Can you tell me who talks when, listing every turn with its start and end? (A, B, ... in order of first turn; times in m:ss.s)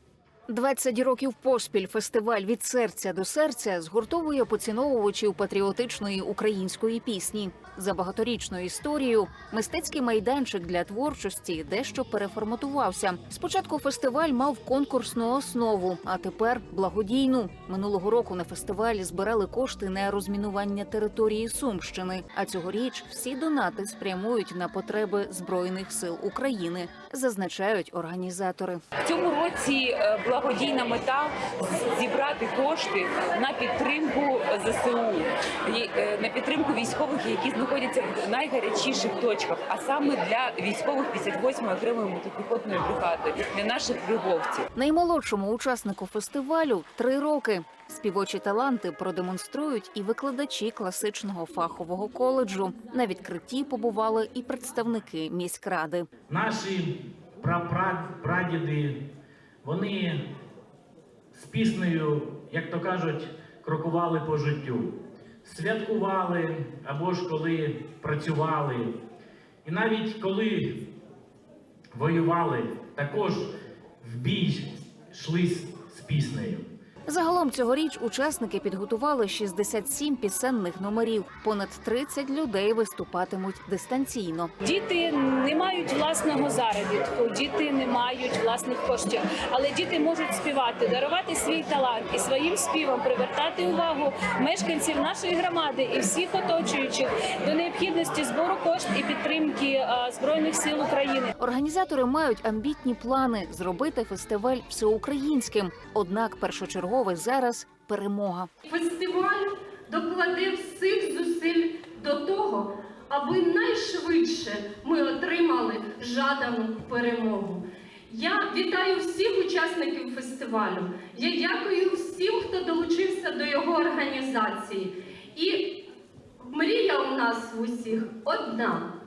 0:00.5-0:28.9 A
0:29.0-0:44.7 B
0:44.8-0:56.1 A
0:56.3-0:59.0 C
0:59.6-1:00.2 C
1:01.3-1:04.9 C
1:05.4-1:08.9 C
1:09.6-1:10.8 C
1:11.9-1:16.7 C
1:17.1-1:24.5 A
1:24.6-1:41.3 D
1:41.4-1:48.5 A
1:48.6-2:05.7 E
2:06.4-2:08.9 E